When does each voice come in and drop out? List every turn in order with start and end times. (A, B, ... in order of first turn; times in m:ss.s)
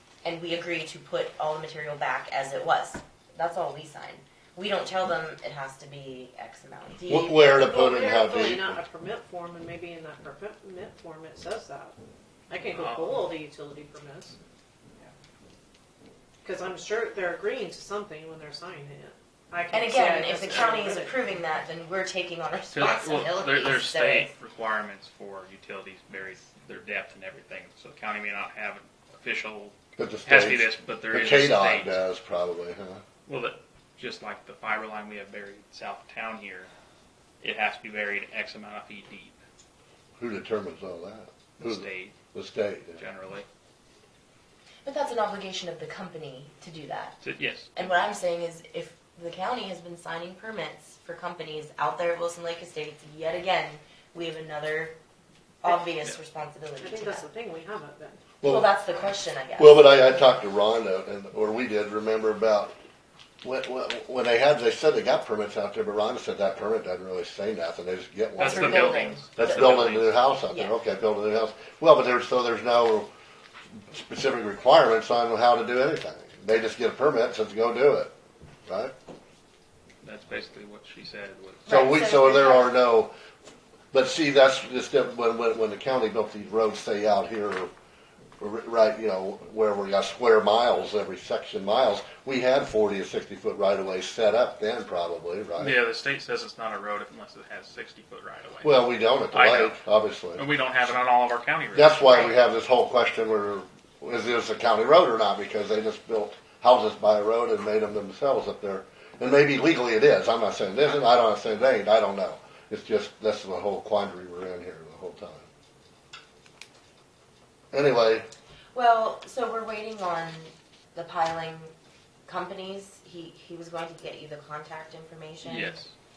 0:00.2-0:07.6 A
0:07.1-0:08.8 B
0:07.4-0:12.0 C
0:12.5-0:14.4 C
0:12.7-0:13.2 D
0:16.4-0:21.2 C
0:19.7-0:24.3 A
0:22.7-0:32.0 D
0:30.0-0:33.0 B
0:33.2-0:36.7 D
0:37.4-0:39.4 D
0:40.2-0:43.0 B
0:41.6-0:42.2 D
0:43.0-0:43.4 D
0:44.8-0:47.2 A
0:47.2-0:47.7 D
0:47.7-0:54.9 A
0:55.6-0:57.2 A
0:56.8-0:58.3 C
0:58.4-0:58.7 B
0:58.4-1:00.0 A
0:59.6-1:02.7 B
1:03.4-1:13.1 B
1:08.4-1:09.6 A
1:08.4-1:10.2 D
1:10.5-1:10.8 A
1:13.9-1:18.1 B
1:18.7-1:18.9 B
1:20.0-1:21.7 D
1:21.6-1:22.8 A
1:21.6-1:23.1 B
1:23.9-1:27.7 B
1:28.4-1:35.8 B
1:35.6-1:39.8 D
1:38.6-1:40.4 B
1:40.4-1:42.1 D
1:41.7-1:55.5 B
1:42.0-1:42.3 A
1:57.7-1:58.3 B
1:58.7-2:01.7 A
2:02.2-2:05.8 A
2:05.4-2:05.9 D